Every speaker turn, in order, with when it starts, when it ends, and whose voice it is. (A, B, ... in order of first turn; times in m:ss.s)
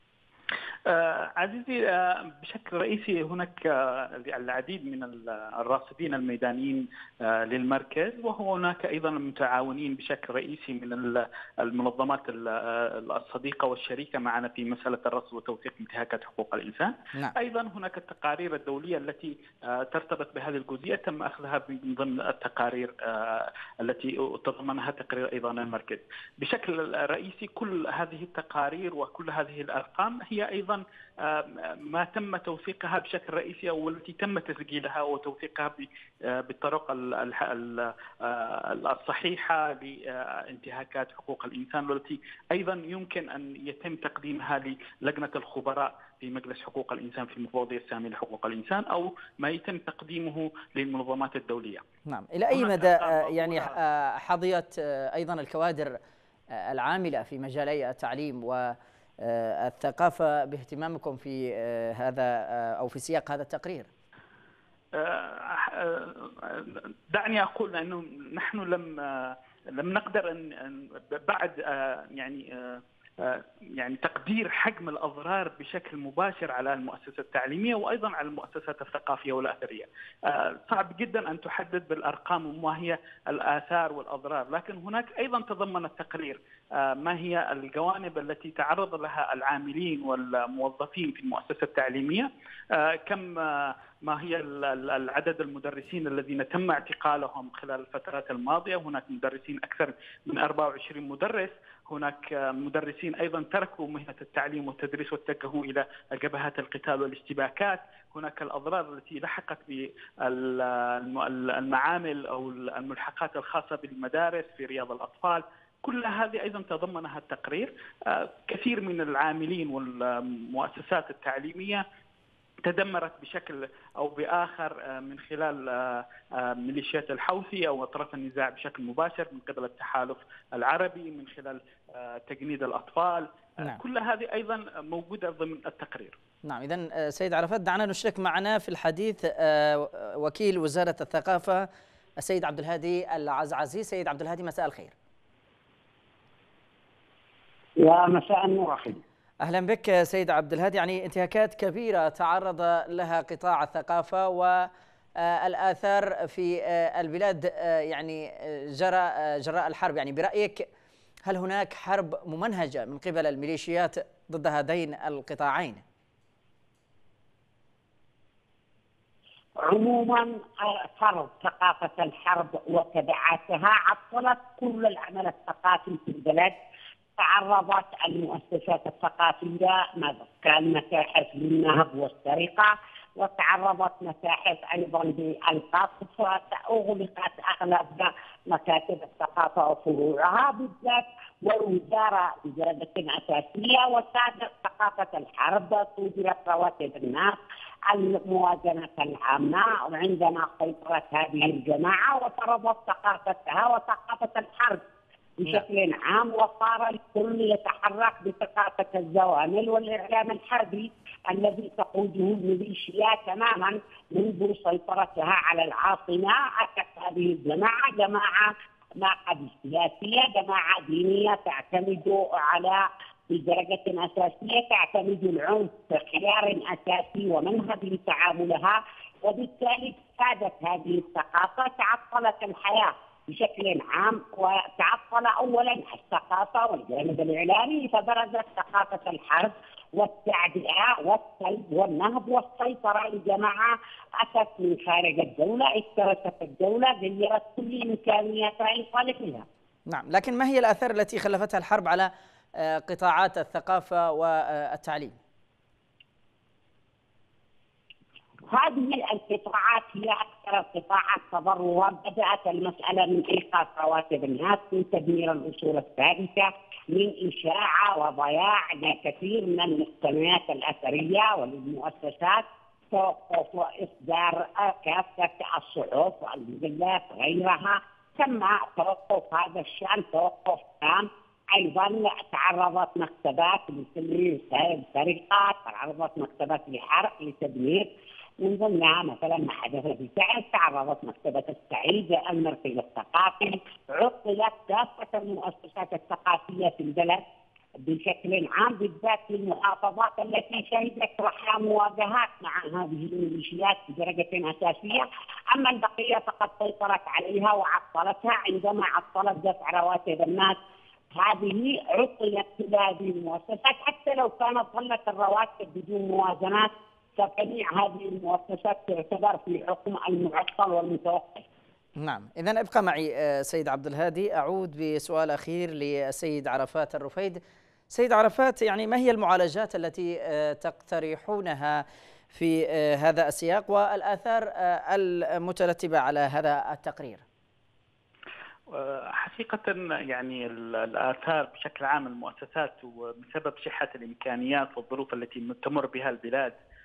0:00.9-0:51.8 A
0:52.1-0:56.0 B
0:52.5-0:53.8 A
0:56.5-1:03.9 B
1:04.9-2:01.8 A
2:02.6-2:16.2 A
2:16.5-2:21.7 B
2:22.2-2:24.9 B
2:27.8-2:29.0 C
2:29.4-2:40.7 B
2:41.3-2:45.8 B
2:49.6-2:56.6 C
2:57.2-3:17.4 C
3:17.9-3:24.8 C
3:25.4-4:09.5 C
4:09.9-4:15.2 B
4:18.5-4:47.9 C
4:48.4-4:57.2 C
4:57.9-5:10.6 C
5:11.2-5:21.4 C
5:22.0-5:37.2 B
5:38.7-5:46.6 A